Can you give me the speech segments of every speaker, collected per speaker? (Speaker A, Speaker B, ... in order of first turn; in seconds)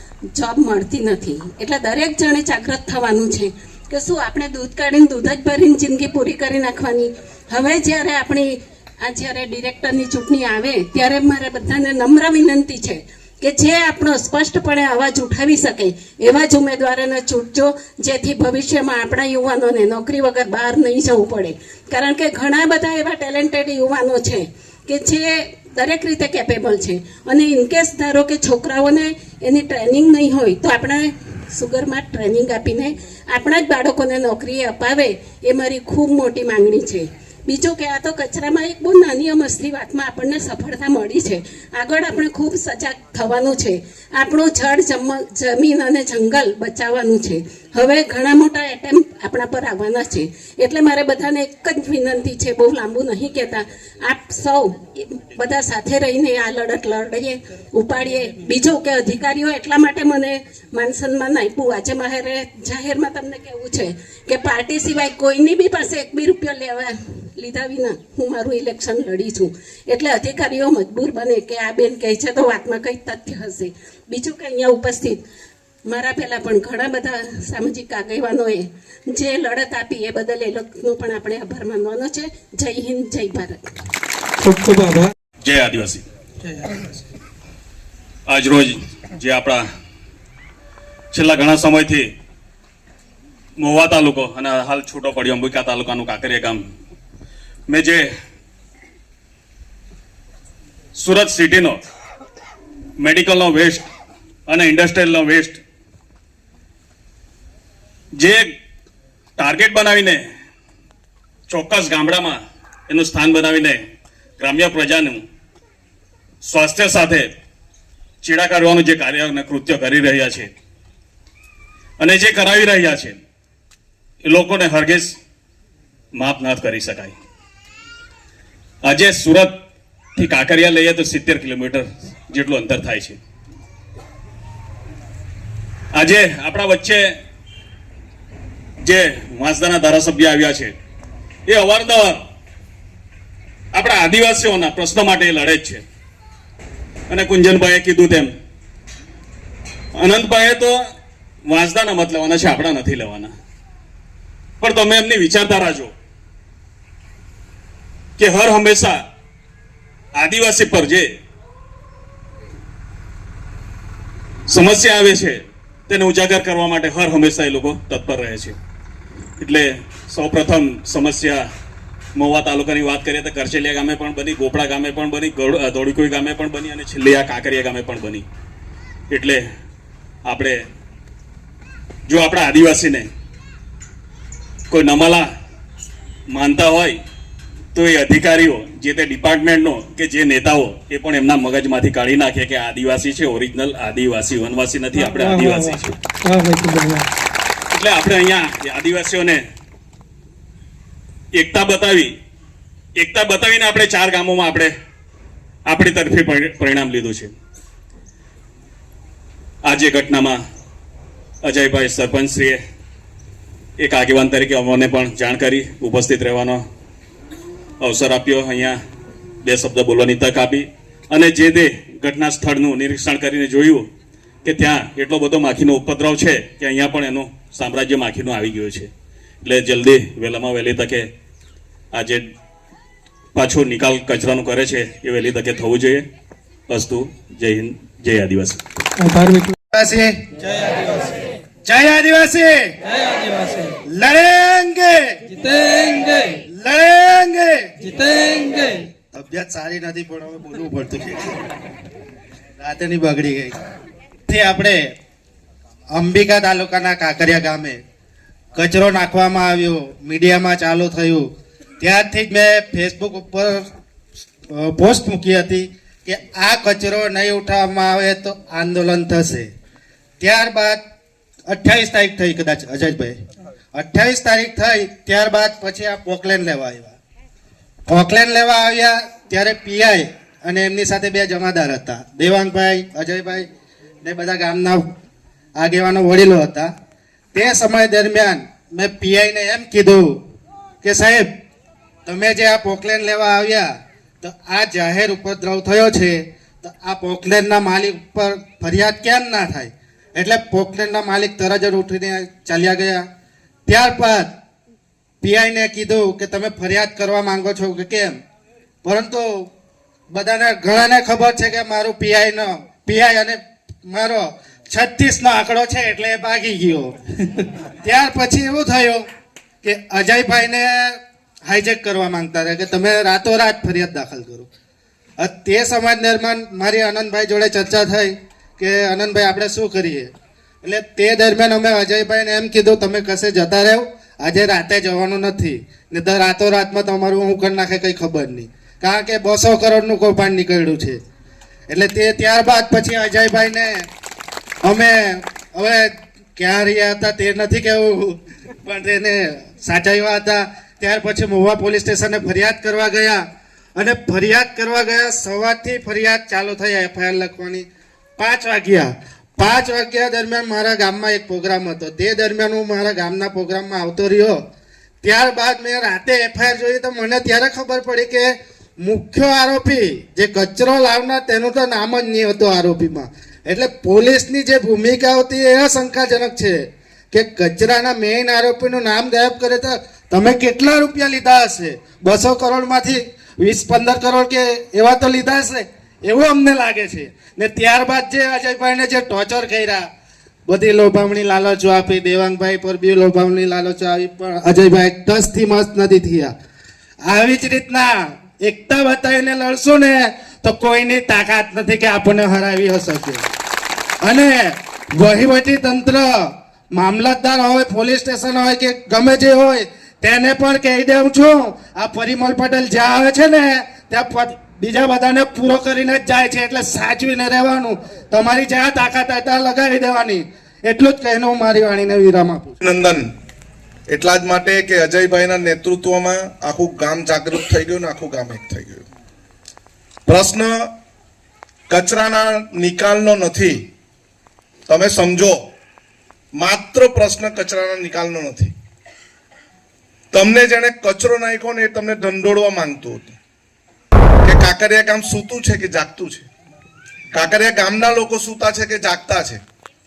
Speaker A: 0.3-75.2, 75.8-83.7
Speaker B: 84.4-85.1, 195.2-195.6, 196.2-197.1, 239.0-239.6, 240.6-241.0, 243.3-243.7, 245.4-246.4, 248.0-248.8
Speaker C: 85.4-86.0, 88.3-89.6, 91.1-92.1, 93.6-96.6, 97.7-98.1, 101.0-101.8, 103.0-103.9, 104.5-105.6, 108.2-108.5, 109.4-110.2, 111.5-113.8, 114.4-115.2, 116.4-117.3, 118.2-120.5, 122.0-123.2, 124.2-125.2, 126.2-127.2, 128.8-129.6, 130.2-133.2, 135.9-137.1, 138.8-140.8, 141.5-142.2, 143.7-145.8, 147.1-148.3, 150.0-150.8, 151.5-153.3, 154.6-155.9, 158.2-159.0, 160.2-161.1, 164.5-168.6, 169.4-171.4, 172.2-178.3, 179.1-179.4, 180.3-180.6, 182.1-183.1, 184.7-185.3, 186.3-187.0, 187.8-196.0, 197.7-199.4, 201.3-202.1, 203.0-204.7, 205.7-207.3, 209.6-210.4, 211.4-212.6, 213.8-216.6, 217.8-218.8, 219.4-223.9, 224.4-228.9, 229.4-231.1, 231.9-232.3, 233.3-236.1, 236.7-238.6
Speaker D: 239.7-240.2, 241.7-242.7, 243.9-245.4, 246.5-247.7, 249.1-251.4, 252.6-253.6, 254.3-255.0, 255.9-257.8, 258.6-261.3, 261.8-263.7, 264.5-269.5, 270.2-270.8, 271.5-273.2, 273.7-277.0, 277.9-283.5, 284.0-284.9, 285.6-286.7, 287.3-290.2, 290.8-291.3, 292.1-303.1, 303.7-304.3, 305.2-308.2, 308.8-309.5, 310.1-319.1, 319.6-324.5, 325.2-330.1, 330.6-341.0, 341.7-343.9, 344.6-353.2, 353.8-357.7, 358.2-364.4, 365.0-389.9, 390.5-396.3, 397.1-403.3, 404.0-422.6
Speaker E: 422.6-423.1, 423.9-428.9, 430.1-430.7, 431.7-433.7, 434.7-435.5, 436.4-438.5, 440.1-443.2, 444.2-446.3, 447.1-449.4